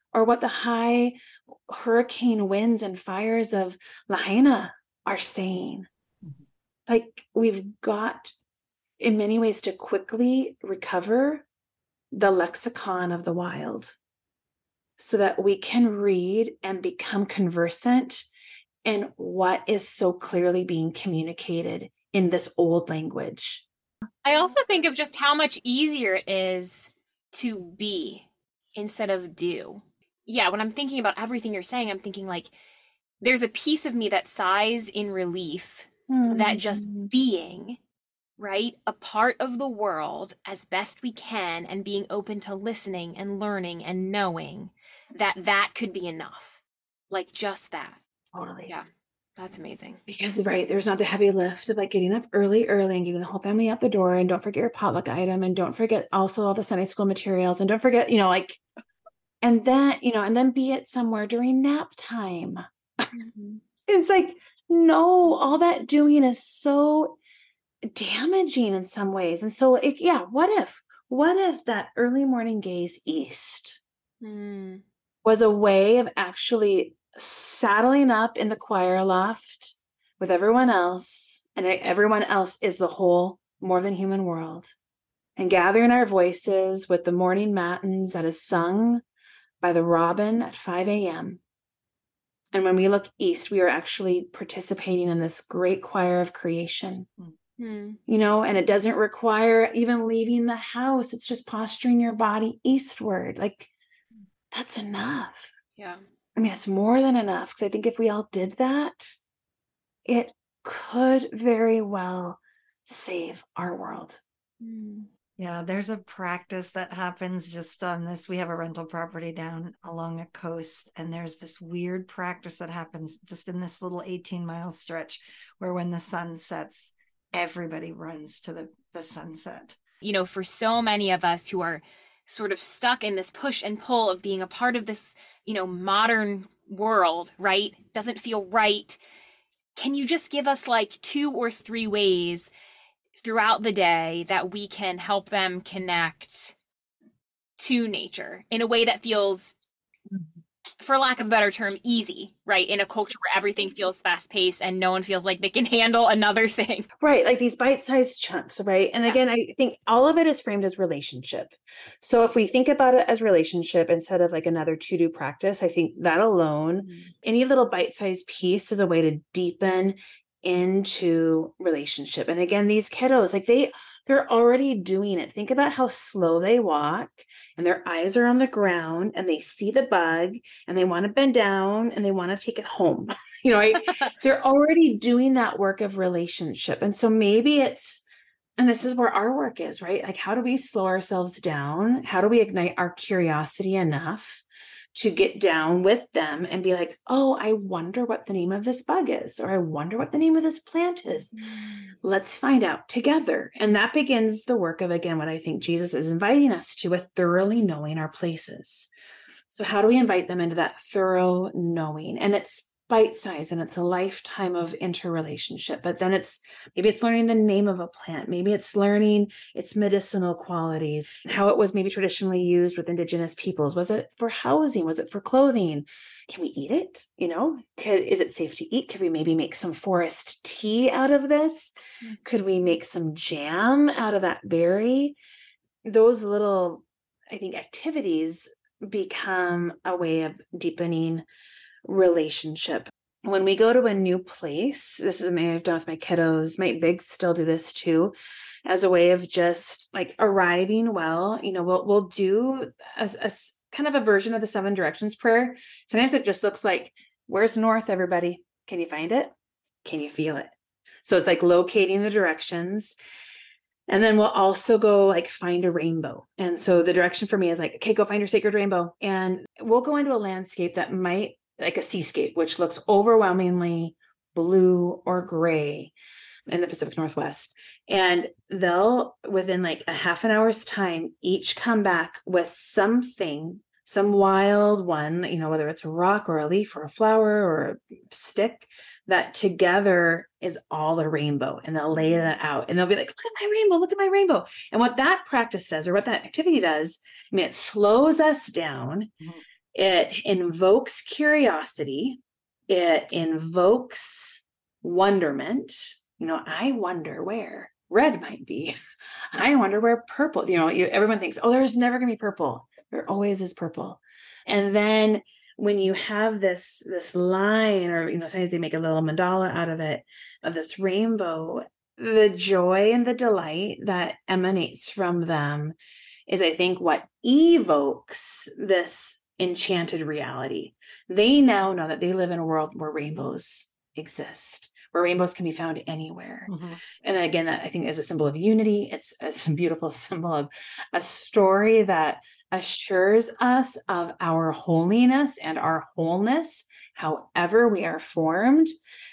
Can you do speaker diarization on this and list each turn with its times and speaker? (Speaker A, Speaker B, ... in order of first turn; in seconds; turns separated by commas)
Speaker A: 0.1-1.1, Speaker A: 1.7-5.9, Speaker A: 6.9-8.3, Speaker A: 9.0-11.4, Speaker A: 12.1-13.9, Speaker A: 15.0-18.2, Speaker A: 18.9-23.6, Speaker B: 24.2-32.5, Speaker B: 33.2-37.8, Speaker A: 36.1-37.1, Speaker B: 38.4-48.0, Speaker A: 48.3-48.7, Speaker B: 49.4-50.0, Speaker A: 50.1-58.6, Speaker A: 59.4-62.6, Speaker A: 63.9-67.2, Speaker A: 67.9-73.8, Speaker B: 74.2-74.8, Speaker A: 75.2-84.7, Speaker A: 85.4-89.0, Speaker A: 89.6-91.4, Speaker A: 92.5-97.0, Speaker B: 97.6-98.0, Speaker A: 98.1-103.7, Speaker A: 104.5-105.5, Speaker A: 106.4-109.1, Speaker A: 110.1-114.2, Speaker B: 114.6-115.1, Speaker C: 115.4-129.8, Speaker B: 130.0-139.0, Speaker B: 139.7-142.5, Speaker B: 143.2-146.5, Speaker B: 147.6-149.5, Speaker B: 150.8-156.9, Speaker A: 157.0-188.0, Speaker A: 188.6-194.4, Speaker A: 194.9-201.3, Speaker A: 202.0-208.9, Speaker A: 209.5-231.7, Speaker A: 232.2-235.2, Speaker A: 235.8-241.2, Speaker A: 241.8-248.1, Speaker A: 248.7-259.3, Speaker A: 259.8-260.5, Speaker A: 261.0-262.9, Speaker A: 263.9-275.9, Speaker A: 276.5-299.1, Speaker A: 299.7-308.7, Speaker A: 309.3-325.7, Speaker A: 326.3-336.5, Speaker C: 336.5-336.8, Speaker A: 337.0-348.7